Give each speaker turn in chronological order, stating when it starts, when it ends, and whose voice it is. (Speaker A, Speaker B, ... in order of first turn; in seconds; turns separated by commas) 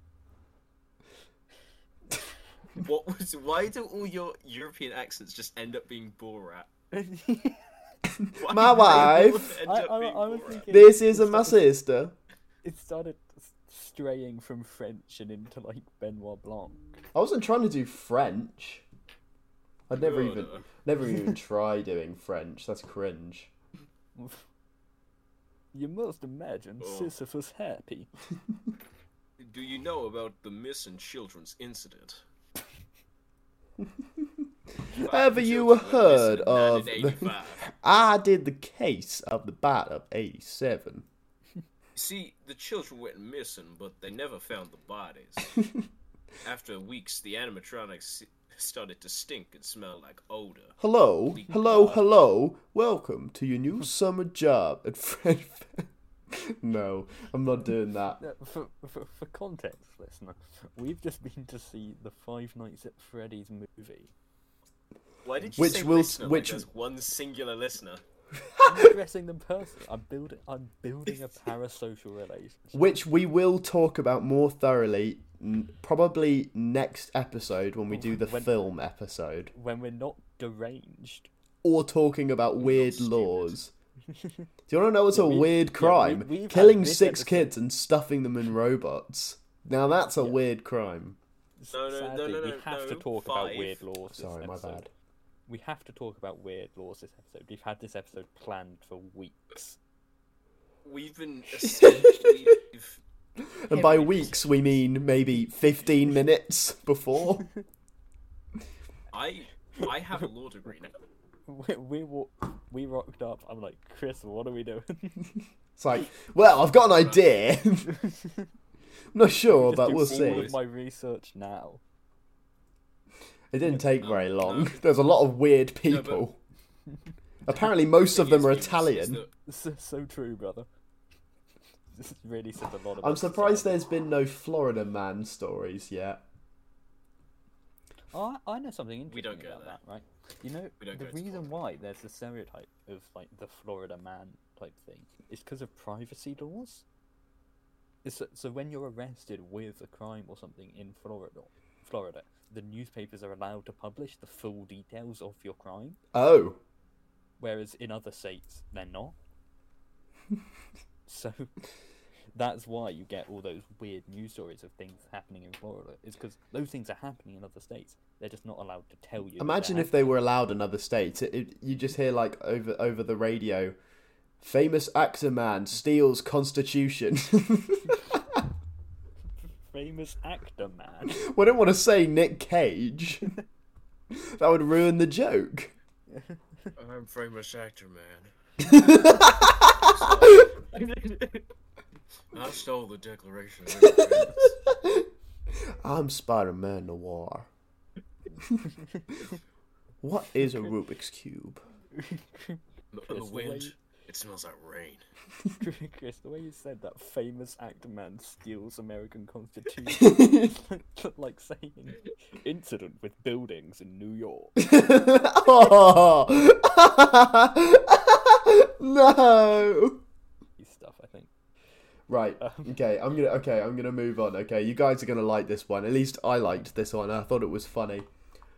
Speaker A: 2.8-6.7, Speaker B: 6.9-7.6, Speaker A: 8.4-10.7, Speaker C: 8.4-9.5, Speaker B: 8.9-11.7, Speaker C: 10.7-12.2, Speaker B: 12.6-17.0, Speaker C: 17.1-18.8, Speaker C: 19.9-23.5, Speaker A: 19.9-20.6, Speaker B: 24.2-24.4, Speaker B: 25.7-28.1, Speaker A: 26.8-27.1, Speaker A: 29.4-32.2, Speaker A: 35.0-37.6, Speaker C: 35.0-41.1, Speaker A: 42.0-45.5, Speaker A: 46.4-50.8, Speaker C: 50.8-58.2, Speaker A: 51.3-51.6, Speaker B: 51.6-52.0, Speaker B: 58.2-64.1, Speaker A: 65.2-68.0, Speaker C: 65.6-66.7, Speaker C: 68.5-68.9, Speaker B: 68.6-72.9, Speaker C: 72.7-79.5, Speaker B: 77.9-78.5, Speaker B: 79.5-81.3, Speaker C: 81.6-83.7, Speaker A: 82.6-83.6, Speaker B: 84.1-84.5, Speaker C: 84.7-91.2, Speaker B: 85.1-87.5, Speaker B: 91.6-94.8, Speaker A: 91.7-93.8, Speaker C: 94.1-94.9, Speaker B: 95.5-99.8, Speaker A: 100.8-103.0, Speaker C: 101.7-102.3, Speaker C: 103.4-107.5, Speaker A: 103.7-104.5, Speaker B: 103.8-104.3, Speaker A: 109.1-111.0, Speaker B: 111.5-115.3, Speaker C: 115.8-117.9, Speaker B: 117.9-118.5, Speaker C: 119.1-120.5, Speaker B: 119.5-121.8, Speaker A: 119.9-120.6, Speaker C: 123.5-126.4, Speaker A: 124.0-124.8, Speaker A: 125.9-126.2, Speaker C: 127.5-129.2, Speaker A: 128.1-129.3, Speaker B: 129.5-130.7, Speaker B: 131.9-133.8, Speaker C: 133.0-136.2, Speaker B: 138.1-146.8, Speaker A: 139.1-139.8, Speaker A: 140.8-141.5, Speaker B: 148.0-156.0, Speaker C: 156.1-156.6, Speaker B: 157.4-159.2, Speaker B: 161.1-161.5, Speaker B: 162.3-170.1, Speaker C: 169.4-173.8, Speaker C: 174.4-178.4, Speaker B: 179.7-181.2, Speaker C: 181.1-183.3, Speaker C: 184.1-185.7, Speaker A: 186.8-188.3, Speaker C: 188.6-190.4, Speaker A: 189.7-191.5, Speaker A: 192.3-194.6, Speaker C: 193.8-195.1, Speaker C: 195.6-197.5, Speaker C: 200.0-201.6, Speaker B: 201.9-203.8, Speaker A: 202.9-205.0, Speaker B: 205.6-214.7, Speaker C: 209.9-210.5, Speaker C: 214.6-220.0, Speaker B: 220.6-221.3, Speaker C: 222.1-228.1, Speaker B: 222.4-222.8